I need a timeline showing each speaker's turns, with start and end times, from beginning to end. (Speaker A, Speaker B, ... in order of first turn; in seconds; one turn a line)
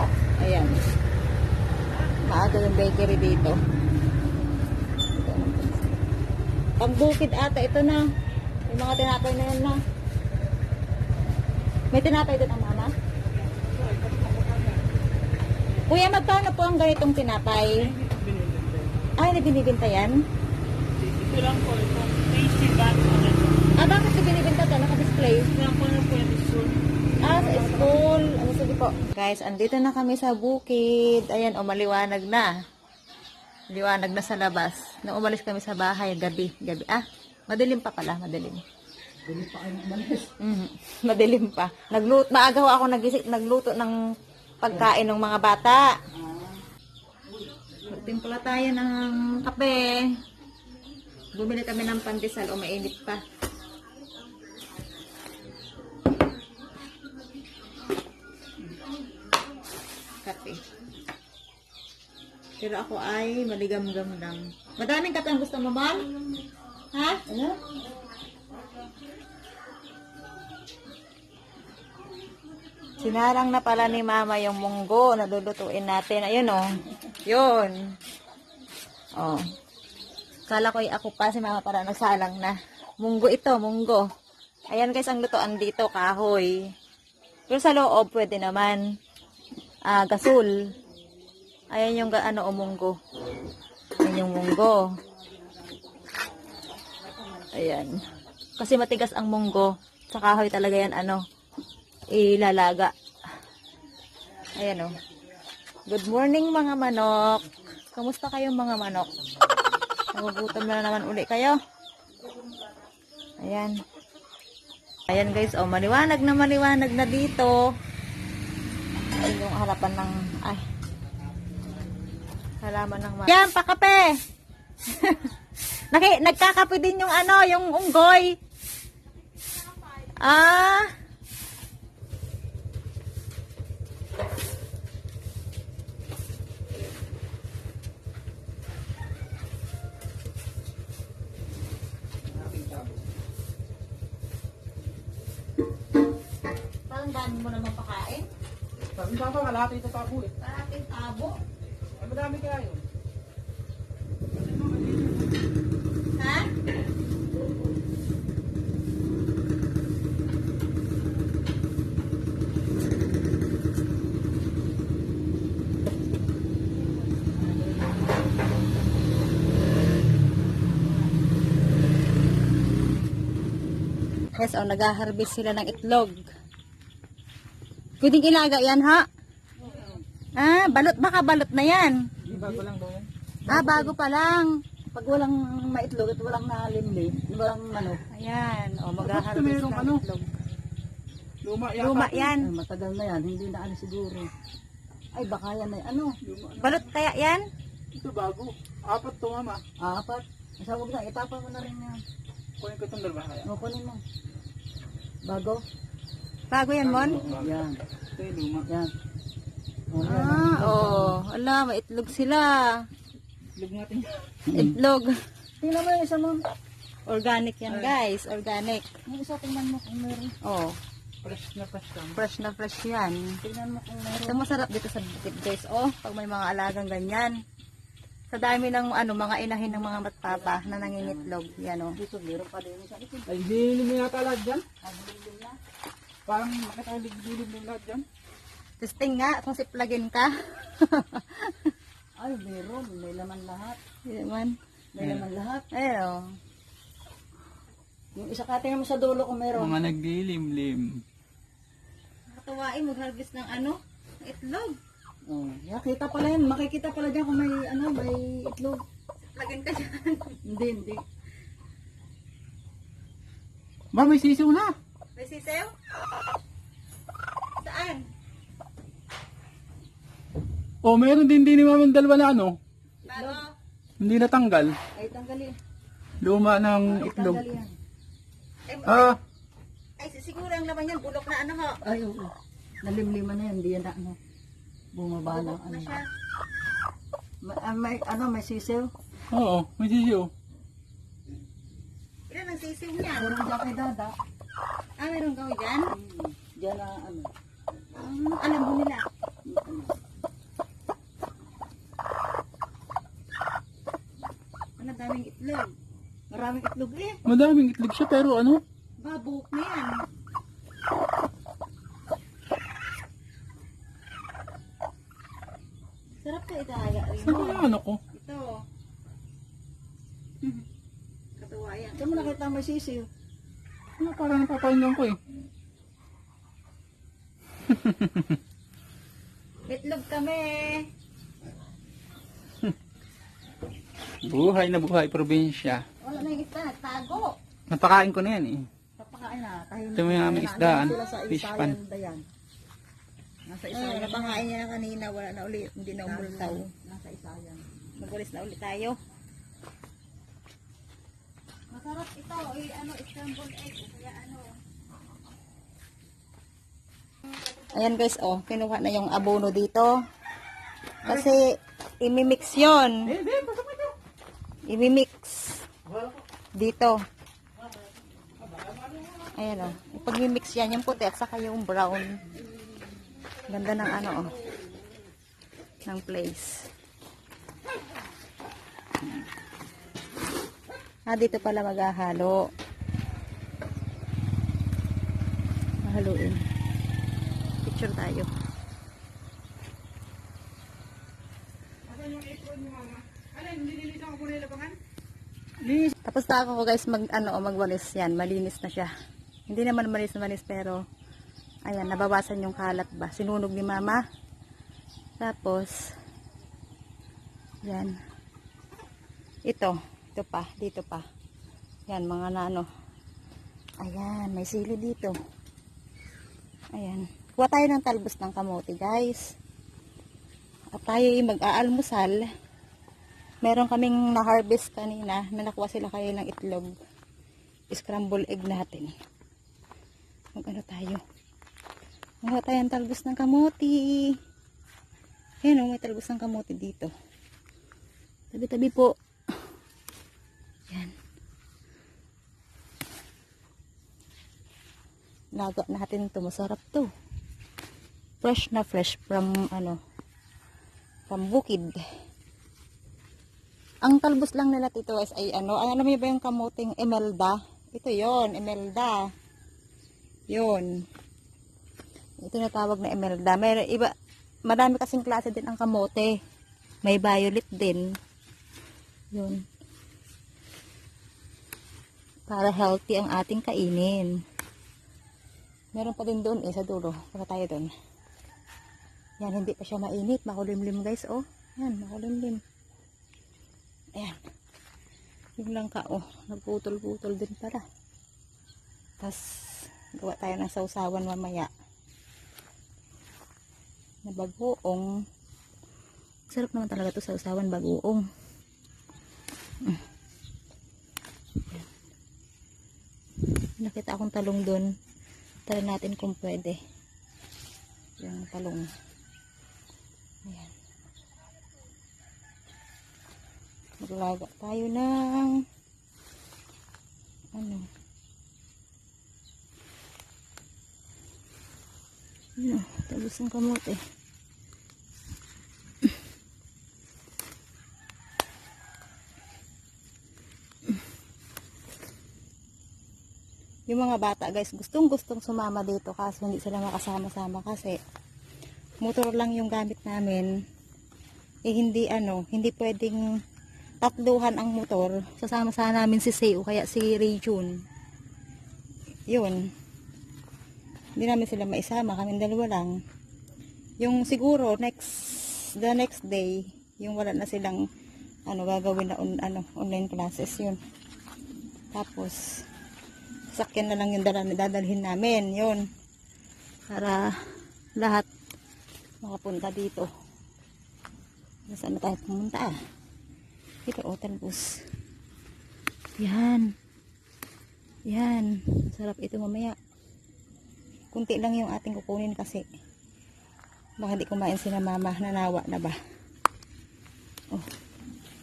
Speaker A: 0.4-0.8
Speaker A: 2.2-3.6
Speaker A: 5.1-5.9
Speaker A: 6.8-8.1
Speaker A: 8.7-9.8
Speaker A: 11.9-12.9
Speaker B: 13.8-14.8
Speaker A: 15.9-17.9
Speaker B: 18.1-18.7
Speaker A: 19.2-20.3
Speaker B: 21.0-23.6
Speaker A: 23.8-25.7
Speaker B: 25.7-26.7
Speaker C: 25.8-26.4
Speaker A: 27.2-32.5
Speaker B: 27.5-27.9
Speaker A: 33.7-38.6
Speaker C: 39.3-40.3
Speaker A: 40.4-44.0
Speaker A: 44.6-46.0
Speaker C: 46.2-46.6
Speaker A: 47.9-50.1
Speaker A: 51.3-53.2
Speaker A: 60.2-60.6
Speaker A: 62.6-66.2
Speaker A: 66.9-67.4
Speaker C: 67.3-67.6
Speaker A: 73.0-78.0
Speaker A: 79.2-79.4
Speaker A: 80.5-84.1
Speaker A: 84.7-86.6
Speaker A: 87.5-88.8
Speaker A: 89.8-90.5
Speaker A: 91.7-93.0
Speaker A: 94.0-94.9
Speaker C: 95.2-97.8
Speaker A: 97.5-98.0
Speaker A: 98.6-101.2
Speaker A: 102.1-102.9
Speaker A: 104.5-104.9
Speaker A: 105.9-109.2
Speaker A: 110.1-111.6
Speaker A: 113.4-113.8
Speaker A: 115.1-117.7
Speaker A: 119.1-120.6
Speaker A: 122.6-124.1
Speaker A: 124.9-125.3
Speaker A: 125.9-128.3
Speaker A: 130.2-130.9
Speaker B: 142.3-143.0
Speaker A: 146.9-148.3
Speaker B: 149.0-150.3
Speaker A: 150.4-151.4
Speaker B: 152.0-152.8
Speaker A: 156.2-156.5
Speaker A: 174.3-176.3
Speaker A: 178.0-179.1
Speaker C: 179.6-180.0
Speaker A: 180.4-182.0
Speaker B: 182.2-183.1
Speaker C: 182.2-182.6
Speaker C: 183.5-183.9
Speaker A: 183.5-184.5
Speaker C: 184.9-188.0
Speaker A: 188.1-190.3
Speaker B: 189.0-190.0
Speaker B: 191.4-192.3
Speaker A: 191.8-192.5
Speaker C: 192.4-194.3
Speaker C: 195.1-196.1
Speaker B: 196.2-196.7
Speaker A: 196.6-197.4
Speaker B: 197.9-199.6
Speaker C: 199.8-202.0
Speaker B: 202.6-203.5
Speaker C: 203.4-204.0
Speaker C: 205.2-205.6
Speaker A: 206.5-207.2
Speaker B: 206.8-207.5
Speaker C: 207.2-207.8
Speaker B: 208.2-208.7
Speaker C: 209.9-211.2
Speaker A: 210.0-212.9
Speaker B: 213.6-214.6
Speaker A: 214.5-215.2
Speaker C: 215.6-216.4
Speaker A: 217.1-218.9
Speaker C: 217.7-217.9
Speaker C: 219.1-220.3
Speaker A: 220.4-220.8
Speaker B: 221.2-222.2
Speaker A: 222.2-223.4
Speaker C: 223.4-224.4
Speaker A: 224.2-227.3
Speaker A: 228.3-232.0
Speaker C: 230.3-231.3
Speaker C: 232.0-233.4
Speaker B: 233.3-234.7
Speaker C: 234.8-235.6
Speaker B: 236.3-238.1
Speaker A: 238.8-241.7
Speaker C: 242.2-243.8
Speaker A: 244.1-244.6
Speaker C: 244.9-245.7
Speaker A: 245.7-246.3
Speaker C: 248.2-249.8
Speaker B: 249.6-251.0
Speaker A: 252.3-254.8
Speaker C: 255.3-258.8
Speaker A: 259.3-260.4
Speaker C: 260.5-261.0
Speaker B: 263.9-264.8
Speaker A: 265.2-265.7
Speaker A: 267.6-268.1
Speaker B: 270.8-272.6
Speaker A: 273.1-273.5
Speaker C: 273.1-273.4
Speaker B: 274.0-274.8
Speaker C: 274.9-275.6
Speaker B: 276.2-277.4
Speaker C: 276.9-277.8
Speaker A: 278.7-279.2
Speaker B: 278.9-279.2
Speaker A: 280.0-281.8
Speaker C: 281.8-284.2
Speaker C: 284.9-286.0
Speaker A: 285.3-286.1
Speaker C: 287.4-288.9
Speaker B: 289.3-290.3
Speaker A: 292.3-293.4
Speaker C: 293.1-294.1
Speaker A: 295.0-295.9
Speaker C: 295.9-297.3
Speaker A: 298.0-299.1
Speaker C: 299.4-299.9
Speaker A: 304.8-305.7
Speaker C: 306.3-307.2
Speaker B: 307.2-308.6
Speaker A: 309.0-310.0
Speaker A: 316.2-318.6
Speaker B: 317.2-318.0
Speaker A: 321.4-322.4
Speaker C: 321.9-323.1
Speaker B: 324.0-325.2
Speaker B: 327.7-328.3
Speaker A: 329.7-330.9
Speaker B: 334.2-335.9
Speaker A: 336.0-337.4
Speaker B: 337.7-338.7
Speaker C: 339.0-342.2
Speaker B: 339.9-341.8
Speaker C: 343.5-344.5
Speaker A: 343.7-346.7
Speaker C: 346.1-347.6
Speaker A: 348.0-349.0
Speaker A: 351.7-354.6
Speaker A: 357.7-360.0
Speaker A: 361.0-363.2
Speaker B: 363.1-363.9
Speaker A: 364.7-365.6
Speaker A: 366.6-367.0
Speaker A: 369.3-372.2
Speaker A: 373.5-374.3
Speaker A: 375.9-376.7
Speaker A: 381.1-382.5
Speaker A: 385.8-386.4
Speaker A: 387.6-388.3
Speaker B: 391.9-394.7
Speaker A: 396.1-398.9
Speaker A: 399.5-400.8
Speaker A: 401.7-404.0
Speaker A: 405.2-405.9
Speaker A: 407.6-407.9
Speaker A: 409.5-411.0
Speaker A: 411.9-412.7
Speaker A: 413.8-415.1
Speaker A: 416.7-419.2
Speaker A: 420.7-422.3
Speaker A: 423.4-426.7
Speaker A: 427.7-428.9
Speaker A: 430.4-431.0
Speaker A: 432.2-434.2
Speaker A: 435.4-436.9
Speaker A: 438.3-439.0
Speaker A: 445.4-446.9
Speaker A: 448.2-449.8
Speaker A: 451.1-451.8
Speaker A: 453.8-459.1
Speaker A: 460.3-460.7
Speaker A: 462.2-463.9
Speaker A: 464.5-466.1
Speaker A: 466.8-467.9
Speaker A: 469.1-469.4
Speaker A: 472.3-474.1
Speaker A: 475.7-477.7
Speaker A: 479.2-482.4
Speaker A: 485.4-487.6
Speaker A: 489.0-491.5
Speaker A: 494.1-494.9
Speaker A: 496.3-498.1
Speaker A: 503.6-504.7
Speaker A: 505.5-506.6
Speaker A: 508.0-508.7
Speaker A: 510.3-510.5
Speaker A: 513.8-515.5
Speaker A: 517.3-517.7
Speaker A: 522.4-523.8
Speaker A: 533.7-537.8
Speaker A: 538.8-540.3
Speaker A: 541.5-543.0
Speaker A: 543.8-547.6
Speaker A: 549.1-549.5
Speaker A: 551.0-552.8
Speaker A: 553.8-557.7
Speaker A: 558.3-560.6
Speaker A: 561.7-562.5
Speaker A: 563.3-565.7
Speaker A: 566.7-567.1
Speaker A: 567.8-568.1
Speaker A: 569.0-569.9
Speaker A: 571.5-572.6
Speaker A: 573.7-574.6
Speaker A: 576.0-576.5
Speaker A: 577.9-579.6
Speaker A: 580.9-582.5
Speaker A: 583.8-585.8